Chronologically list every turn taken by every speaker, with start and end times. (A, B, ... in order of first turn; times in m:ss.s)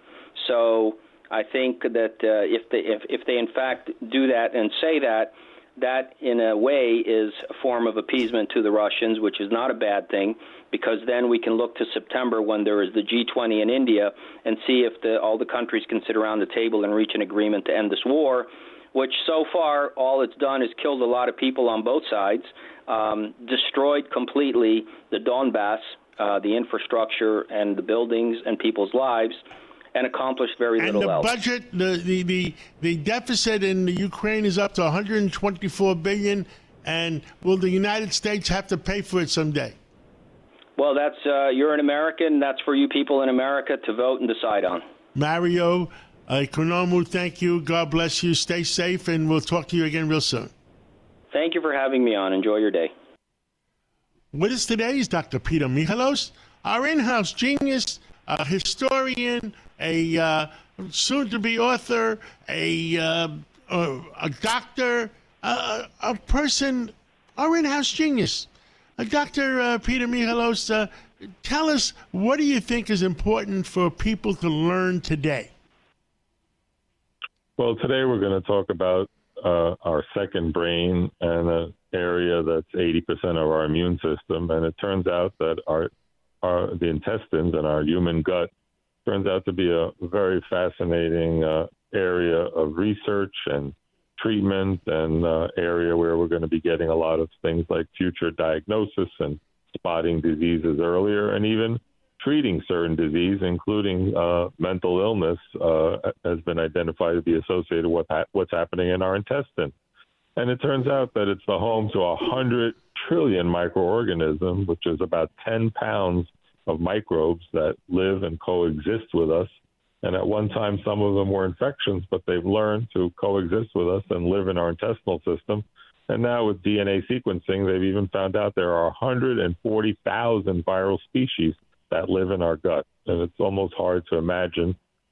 0:00.4-0:29.4 A
0:29.9-0:31.3 A
0:30.8-0:39.7 B
0:40.8-0:44.8 A
0:45.1-0:50.5 B
0:51.3-0:52.9 A
0:54.3-1:10.9 B
1:11.4-1:15.5 B
1:17.6-1:25.9 C
1:26.4-1:28.5 C
1:29.0-1:49.7 C
1:50.4-1:59.5 C
2:00.0-2:14.8 C